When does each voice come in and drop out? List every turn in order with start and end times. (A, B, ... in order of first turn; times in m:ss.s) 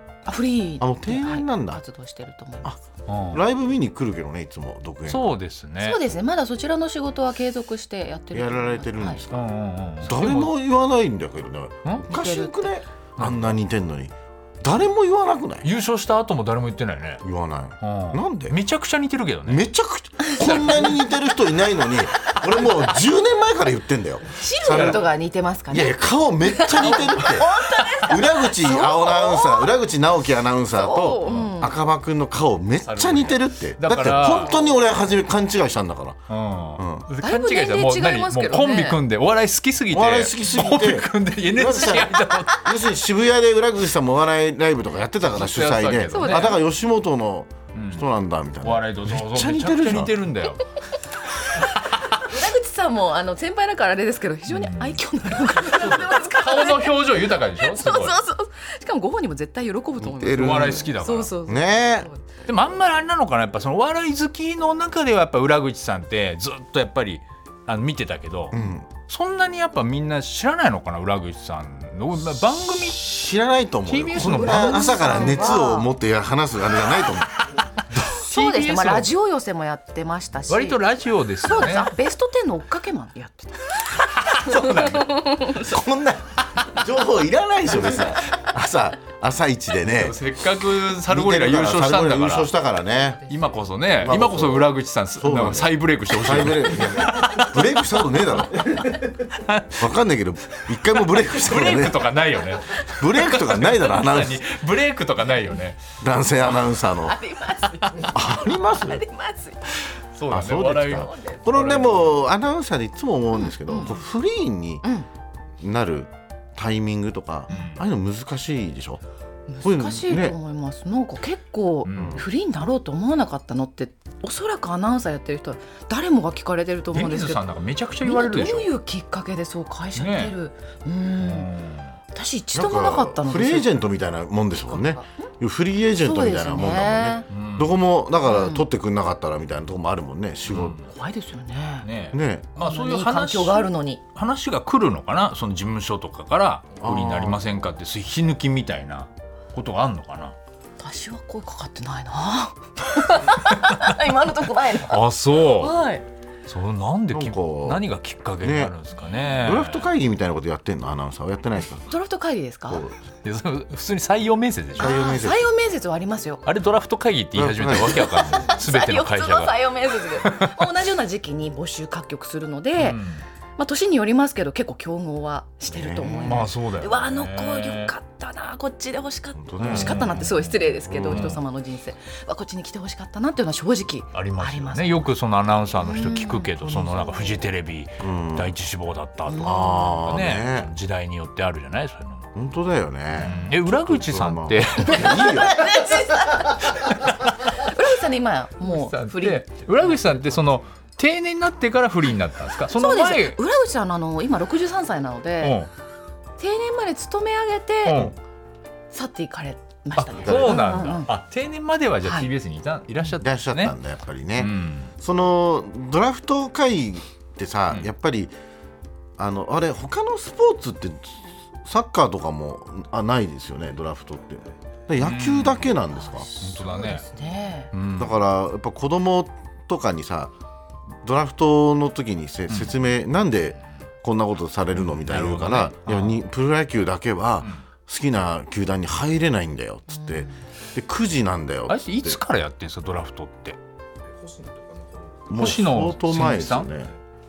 0:00.3-0:02.7 A
0:00.8-0:01.8 B
0:03.1-0:03.4 C
0:03.3-0:05.3 B
0:05.1-0:06.0 C
0:05.8-0:09.2 A
0:08.3-0:09.4 B
0:09.3-0:10.5 C
0:10.0-0:15.7 B
0:12.1-0:12.7 A
0:13.2-0:13.6 C
0:15.6-0:17.2 C
0:17.2-0:18.6 B
0:17.8-0:19.7 C
0:19.5-0:25.0 B
0:20.4-0:21.0 C
0:24.3-0:29.7 A
0:24.7-0:25.0 C
0:25.7-0:36.2 B
0:30.7-0:31.8 A
0:31.3-0:31.5 C
0:32.8-0:34.5 C
0:34.4-0:34.8 A
0:36.3-0:42.7 C
0:36.8-0:37.1 B
0:37.2-0:39.0 A
0:39.9-0:50.2 B
0:42.3-0:42.6 A
0:45.3-0:46.6 C
0:46.1-0:46.6 A
0:47.8-0:48.1 C
0:48.6-0:50.7 C
0:51.5-0:52.2 C
0:52.1-1:02.3 A
0:54.5-0:55.0 C
0:55.6-0:58.2 C
1:00.0-1:00.9 B
1:00.3-1:01.3 C
1:01.5-1:02.1 B
1:02.5-1:13.2 C
1:08.5-1:08.9 B
1:13.0-1:17.4 B
1:13.9-1:15.4 C
1:14.3-1:15.9 A
1:17.9-1:19.1 C
1:18.0-1:20.8 A
1:20.5-1:21.9 C
1:21.4-1:25.7 A
1:24.2-1:25.2 C
1:24.6-1:24.9 B
1:25.5-1:30.2 B
1:29.8-1:32.5 C
1:31.1-1:33.3 B
1:33.3-1:37.7 C
1:34.0-1:39.0 B
1:38.7-1:39.9 C
1:39.8-1:42.1 B
1:40.6-1:45.8 C
1:43.0-1:44.4 B
1:46.0-1:47.2 B
1:47.0-1:49.7 A
1:48.0-1:49.0 B
1:50.1-1:52.2 C
1:50.3-1:54.8 B
1:51.0-1:51.4 A
1:53.5-1:53.9 A
1:55.6-1:59.0 B
1:57.5-1:57.8 C
1:59.5-2:07.4 A
1:59.6-2:00.4 B
2:01.8-2:02.2 C
2:01.9-2:02.2 B
2:06.9-2:08.7 C
2:08.0-2:11.5 A
2:10.0-2:10.3 C
2:11.2-2:12.0 C
2:12.1-2:13.7 A
2:12.5-2:20.8 B
2:14.7-2:15.3 A
2:16.0-2:17.3 A
2:17.3-2:17.7 C
2:18.2-2:18.6 A
2:20.5-2:20.9 C
2:20.9-2:21.9 A
2:21.8-2:30.4 C
2:22.1-2:22.5 B
2:22.6-2:24.0 A
2:26.8-2:27.4 B
2:30.8-2:35.0 A
2:34.9-2:35.8 C
2:35.5-2:36.0 A
2:36.5-2:39.9 C
2:37.1-2:37.8 B
2:38.4-2:38.7 B
2:39.4-2:41.9 B
2:41.9-2:42.8 A
2:42.7-2:43.0 B
2:43.2-2:45.0 C
2:44.8-2:45.5 B
2:44.8-2:46.4 A
2:46.4-2:50.6 C
2:47.4-2:48.1 B
2:47.8-2:53.0 A
2:52.8-2:53.2 C
2:53.6-3:05.1 A
2:55.7-2:56.5 B
2:56.2-2:57.9 C
2:59.4-3:00.2 B
2:59.6-3:01.4 C
3:00.9-3:01.4 B
3:04.1-3:12.3 C
3:05.8-3:07.4 A
3:08.0-3:08.5 B
3:09.3-3:10.0 A
3:09.4-3:10.7 B
3:12.4-3:16.0 B
3:13.2-3:15.2 C
3:14.8-3:19.4 A
3:18.7-3:23.4 C
3:22.7-3:25.6 A
3:25.4-3:25.7 C
3:26.4-3:28.1 A
3:27.8-3:28.2 C
3:28.9-3:31.1 A
3:30.0-3:33.8 C
3:30.2-3:30.7 B
3:32.0-3:32.3 A
3:33.2-3:38.3 B
3:34.4-3:34.9 C
3:39.2-3:46.3 B
3:45.0-3:45.8 C
3:46.1-3:47.7 A
3:46.4-3:47.1 C
3:47.7-3:48.2 C
3:48.0-3:50.3 B
3:51.0-4:02.2 B
3:52.5-3:52.8 C
3:54.8-3:56.2 C
3:59.9-4:00.3 A
4:01.7-4:03.6 C
4:05.3-4:06.9 B
4:05.3-4:06.7 C